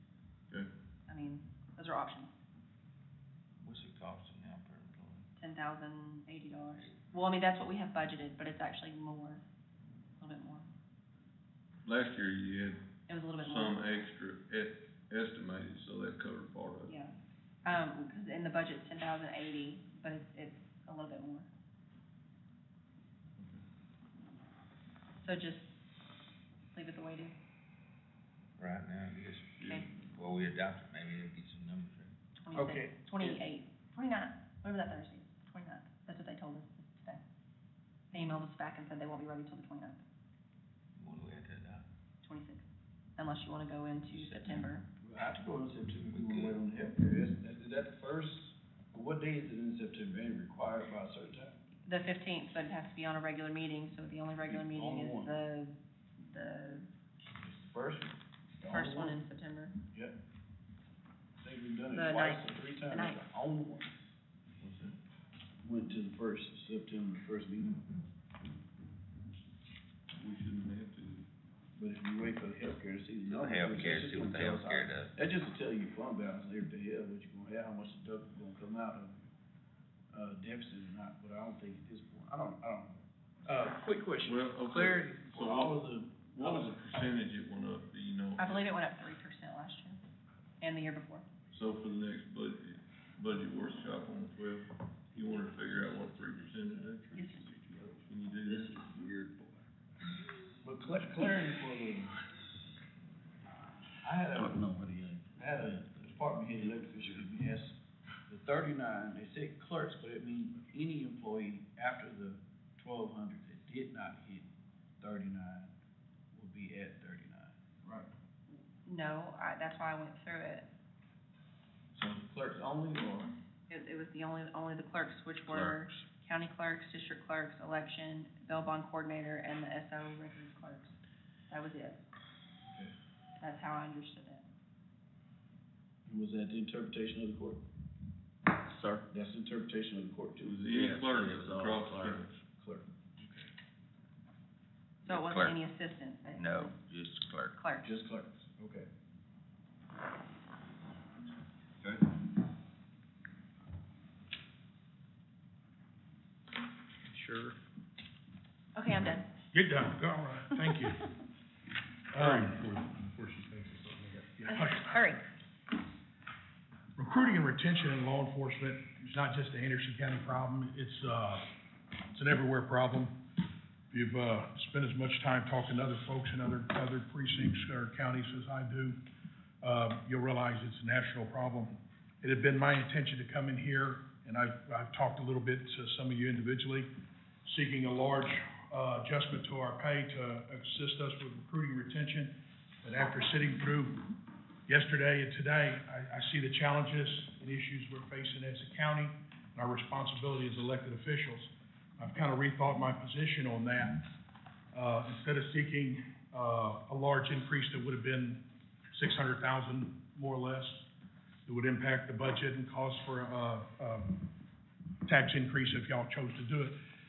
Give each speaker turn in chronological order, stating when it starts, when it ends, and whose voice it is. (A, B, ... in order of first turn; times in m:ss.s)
0:01.1-0:02.3 A
0:03.6-0:05.3 B
0:05.4-0:09.4 A
0:10.2-0:10.7 A
0:11.8-0:12.8 C
0:13.1-0:13.8 A
0:13.4-0:16.9 C
0:16.9-0:21.5 A
0:25.2-0:25.7 A
0:26.7-0:27.4 A
0:28.6-0:32.1 B
0:29.6-0:29.8 C
0:32.4-0:37.2 A
0:32.5-0:33.4 D
0:38.1-0:40.0 A
0:41.0-0:41.8 B
0:42.2-0:42.6 A
0:43.2-0:44.8 A
0:44.1-0:44.7 B
0:45.0-0:51.6 D
0:46.1-0:46.6 B
0:51.9-0:56.9 A
0:54.5-0:55.4 D
0:57.4-0:59.2 D
0:58.7-0:59.8 A
1:01.4-1:04.1 D
1:01.9-1:03.2 A
1:04.6-1:05.0 C
1:05.6-1:07.9 D
1:10.2-1:11.3 C
1:11.8-1:19.2 D
1:13.3-1:15.1 B
1:20.1-1:26.8 D
1:24.2-1:28.7 C
1:28.4-1:30.0 A
1:30.6-1:31.2 A
1:31.5-1:37.2 C
1:37.1-1:37.5 A
1:38.0-1:38.9 C
1:38.5-1:39.4 D
1:40.6-1:42.2 D
1:44.0-1:47.8 D
1:48.3-1:54.5 D
1:55.0-1:55.7 D
1:56.3-1:58.1 D
1:58.5-2:00.7 A
2:01.9-2:03.4 D
2:03.7-2:11.0 A
2:11.5-2:12.0 A
2:12.7-2:12.9 D
2:13.4-2:14.4 A
2:16.1-2:17.6 D
2:19.1-2:22.9 D
2:20.4-2:22.4 C
2:25.0-2:25.6 B
2:25.1-2:26.7 A
2:26.4-2:27.5 B
2:27.6-2:27.9 A
2:27.8-2:28.9 D
2:37.1-2:37.6 E
2:38.8-2:39.3 A
2:39.5-2:41.1 E
2:42.1-2:43.0 E
2:44.1-2:45.1 E
2:44.5-2:45.2 A
2:47.0-2:51.5 E
2:52.1-2:53.1 E
2:53.9-2:59.0 E
2:59.6-3:06.9 E
3:07.5-3:14.0 E
3:14.7-3:24.0 E
3:24.7-3:28.4 E
3:28.9-3:30.9 E
3:31.5-3:34.2 E
3:35.1-3:36.8 E